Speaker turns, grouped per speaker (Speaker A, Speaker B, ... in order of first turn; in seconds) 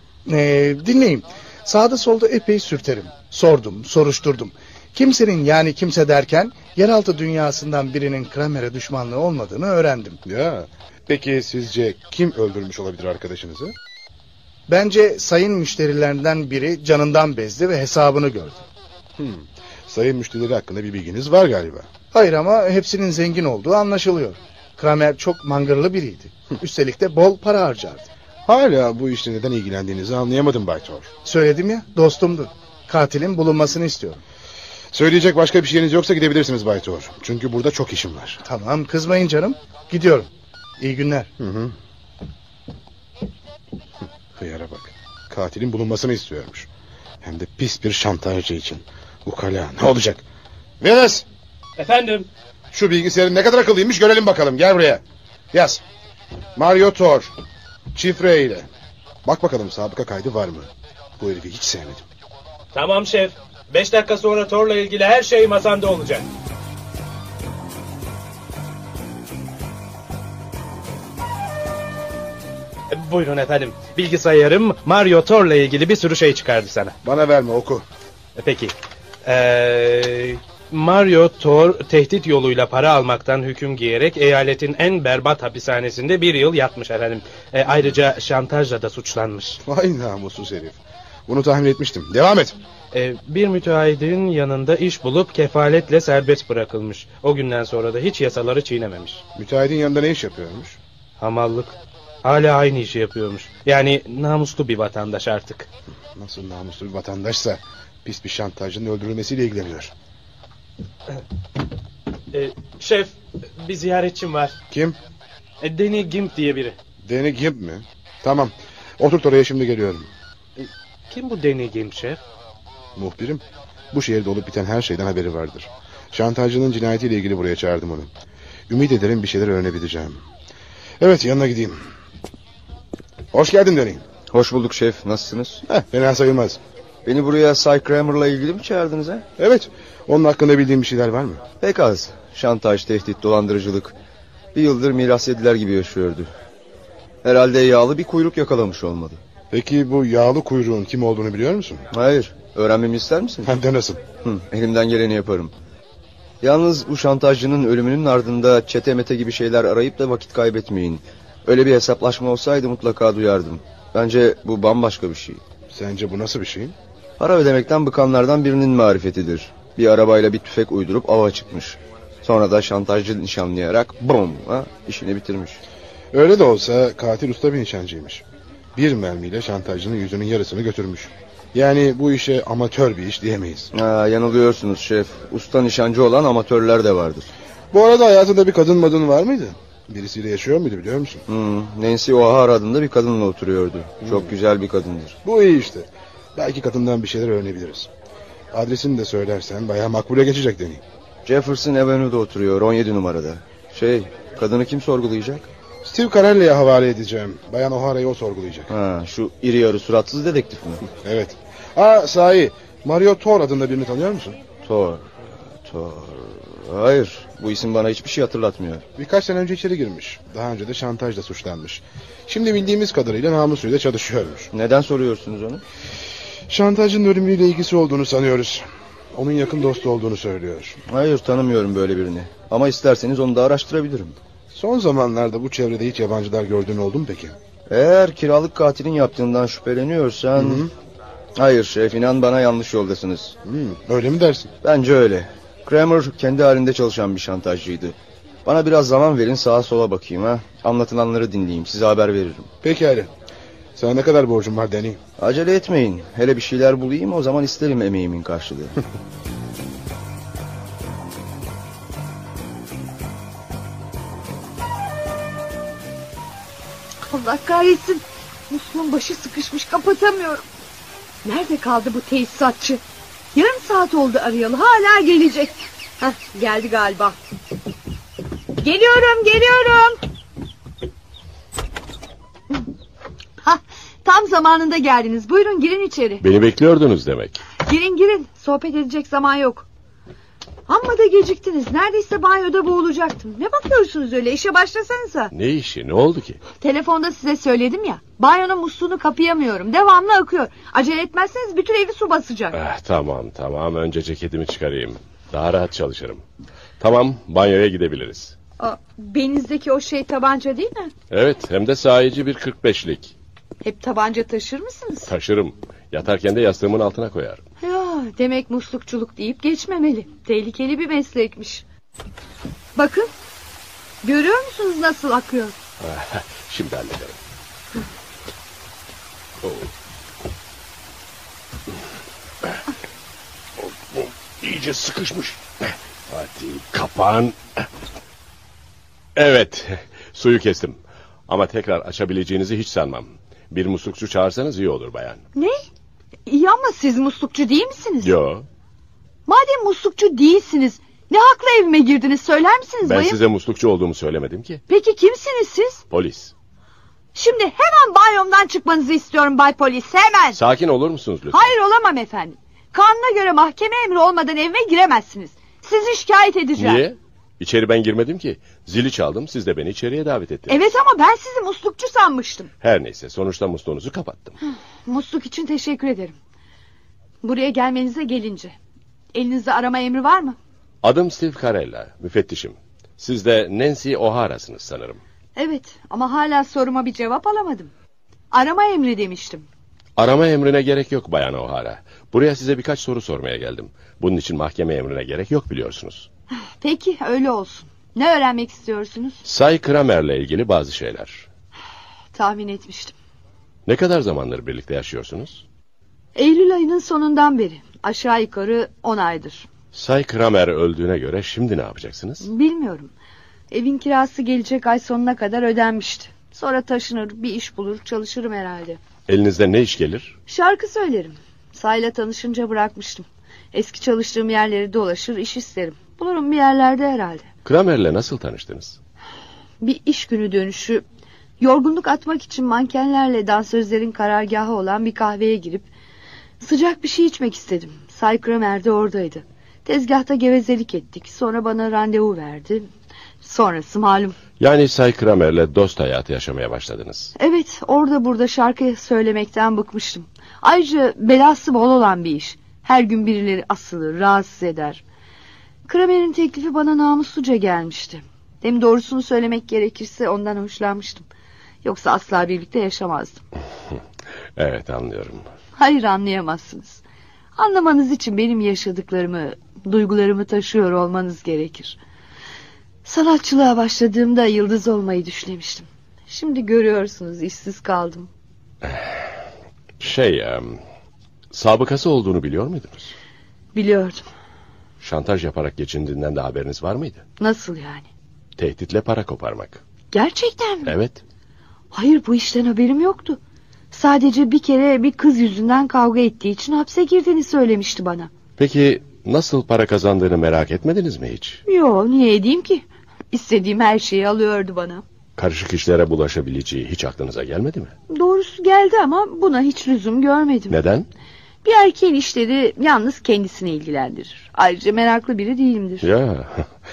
Speaker A: 0.3-10.2, 14.7-18.6, 22.1-28.1, 31.2-34.2, 38.4-40.3, 40.8-41.3
Speaker B: 10.2-13.7, 19.2-21.9, 28.5-31.1, 34.9-38.4, 41.4-41.7, 44.4-46.7, 47.2-50.2, 50.8-51.2, 52.7-55.8, 56.5-57.3, 57.9-58.7, 59.2-62.0, 77.0-77.8, 89.6-92.5, 99.3-100.8, 106.2-109.9, 114.7-115.0, 117.0-120.1, 123.0-128.1, 128.7-130.2, 131.0-131.7, 133.3-134.1, 135.7-136.6, 139.4-141.4, 149.5-151.8, 153.4-154.0, 165.7-166.7, 176.1-178.2, 178.8-183.7, 187.7-191.2, 194.0-194.3, 195.2-197.9, 198.5-200.8, 205.8-208.7, 211.0-214.4, 219.0-224.5, 226.5-230.8, 234.5-237.3, 240.3-240.7, 243.4-244.5, 252.6-253.1, 253.8-255.0
Speaker C: 51.8-52.3, 62.7-66.3, 72.9-76.9, 78.3-78.7, 79.2-89.6, 92.9-99.2, 101.2-105.7, 112.3-114.5, 115.6-116.8, 120.6-122.2
Speaker D: 134.3-135.6, 137.1-139.2, 141.6-143.9, 144.5-146.3, 147.2-149.2, 151.9-153.5, 154.2-155.5, 156.4-165.4, 167.2-175.6, 183.7-187.3, 191.3-195.2, 201.2-205.5, 208.7-210.8, 214.6-215.1, 215.6-218.8, 224.5-225.6, 230.9-234.1, 237.7-240.7, 241.4-243.3, 244.6-252.5, 255.2-258.8
Speaker E: 267.1-270.4, 271.2-272.8, 273.3-277.1, 278.6-280.0, 283.4-286.2, 287.6-289.7, 290.7-295.3, 296.6-302.6, 308.6-310.9, 313.6-315.1, 317.6-321.6, 322.8-323.1, 324.0-325.5, 345.3-345.6, 346.2-348.1, 349.3-353.2, 354.7-355.8, 357.1-360.4, 361.3-366.8, 370.5-372.5, 374.9-376.1, 377.2-378.5, 379.1-380.4, 385.4-387.7, 388.3-389.4, 396.4-399.2, 402.1-402.9, 406.1-409.5, 412.2-412.9, 413.5-418.8, 420.3-427.3, 429.6-430.8, 431.4-435.7, 436.4-442.7, 443.2-444.2, 447.2-454.8, 455.7-461.0, 461.6-463.2, 465.6-466.8, 467.4-471.8, 472.8-478.1, 483.5-484.0, 487.2-487.9, 489.9-490.7, 491.7-493.2, 493.7-498.1, 501.5-504.8, 507.9-510.6, 511.4-515.9
Speaker F: 286.2-287.4, 295.3-296.4, 302.5-306.2, 306.8-308.3, 311.1-313.1, 315.1-317.4, 325.8-327.2, 329.4-329.7, 333.6-337.7, 339.1-345.2, 348.0-348.4, 352.8-354.6, 355.9-356.3, 360.3-361.5, 366.6-370.6, 372.6-374.4, 380.8-385.0, 390.0-396.1, 399.2-401.2, 403.6-405.4, 409.7-412.2, 419.1-420.1, 427.4-428.8, 444.4-447.1, 464.4-465.2, 479.8-480.6, 481.3-482.9, 484.8-487.0, 488.4-489.6, 490.6-491.0, 498.4-501.4, 505.2-507.7, 510.5-510.9, 515.8-516.5